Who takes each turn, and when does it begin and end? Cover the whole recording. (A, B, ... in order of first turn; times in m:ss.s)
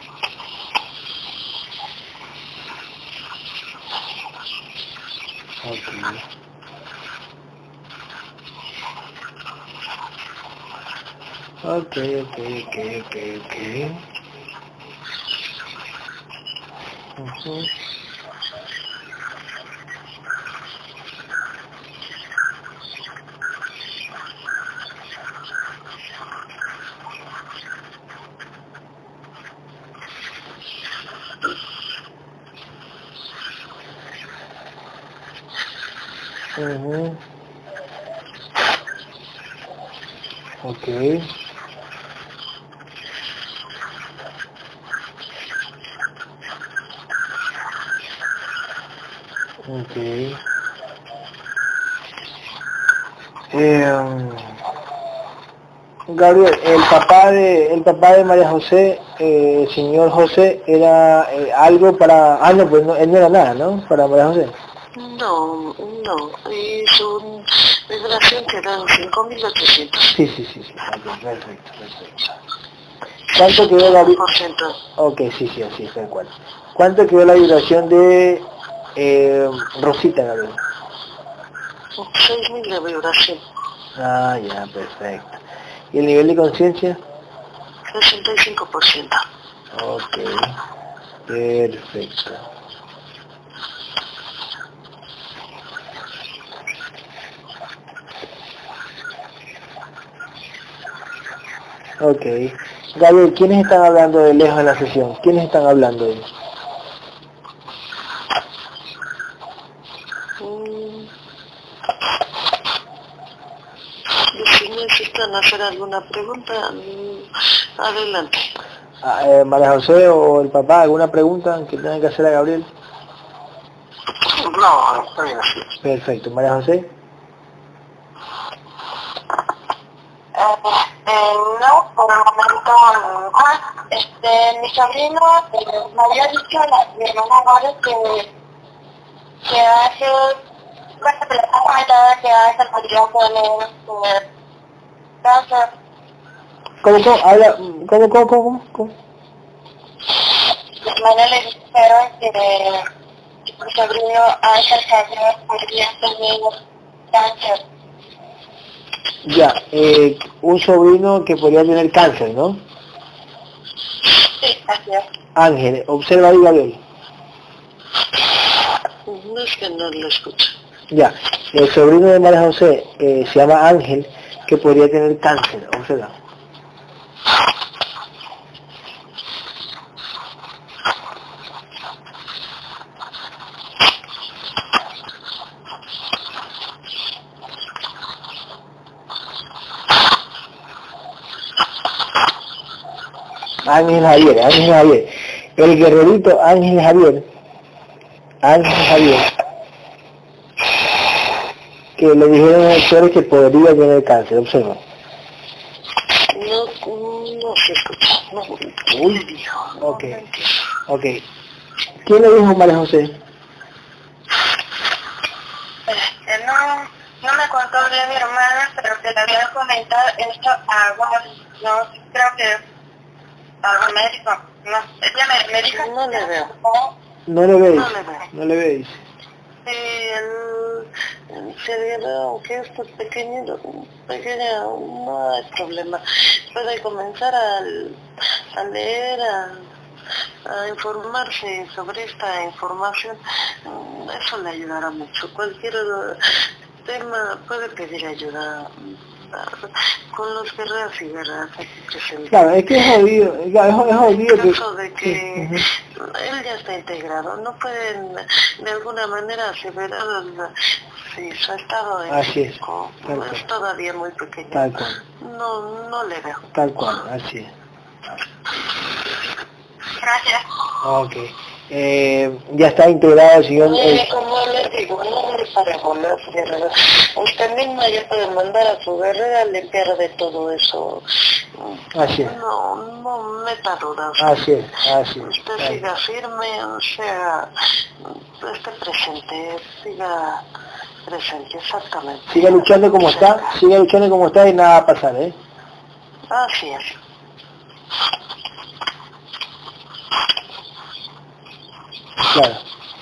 0:05.6-0:06.2 A
0:11.6-0:14.0 A
0:17.2-0:17.7 A
0:36.6-0:37.2 A
0:40.6-0:41.3 A
0:49.6-0:50.4 A
0:53.5-0:54.6 A
0:56.1-1:04.5 A
1:05.0-1:10.2 B
1:10.1-1:12.4 A
1:13.3-1:14.8 B
1:13.3-1:14.2 A
1:15.0-1:20.6 A
1:22.0-1:23.4 B
1:24.0-1:27.0 A
1:27.9-1:29.2 B
1:29.7-1:30.6 A
1:31.3-1:32.5 A
1:42.0-1:46.3 A
1:50.4-1:51.1 B
1:54.3-1:58.5 B
1:59.0-2:02.7 A
2:04.2-2:05.6 B
2:05.8-2:06.9 A
2:10.3-2:18.2 C
2:19.4-2:20.4 C
2:21.0-2:24.2 C
2:25.2-2:25.7 C
2:26.8-2:28.9 A
2:30.8-2:32.9 C
2:33.6-2:36.6 C
2:37.1-2:37.6 C
2:39.2-2:42.6 A
2:44.4-2:45.0 C
2:45.3-2:46.8 A
2:49.0-2:50.5 B
2:50.9-2:56.1 A
3:13.6-3:17.2 A
3:18.4-3:19.3 A
3:22.0-3:24.8 A
3:26.3-3:30.5 B
3:29.8-3:30.2 A
3:30.9-3:31.2 A
3:32.0-3:33.2 A
3:35.9-3:42.6 C
3:43.6-3:46.9 C
3:45.7-3:46.5 B
3:47.3-3:49.0 A
3:47.7-3:48.2 B
3:49.6-3:58.0 B
3:58.5-3:59.7 B
4:00.4-4:12.9 B
4:12.3-4:15.6 A
4:13.7-4:26.5 B
4:22.1-4:23.4 A
4:24.5-4:25.0 A
4:26.5-4:27.5 A
4:30.0-4:30.4 C
4:30.8-4:34.1 A
4:33.6-4:44.4 B
4:41.9-4:42.4 A
4:44.2-4:45.8 A
4:45.2-4:50.4 B
4:51.0-4:53.4 B
4:52.3-4:55.4 A
4:56.3-4:57.0 B
5:02.2-5:02.6 A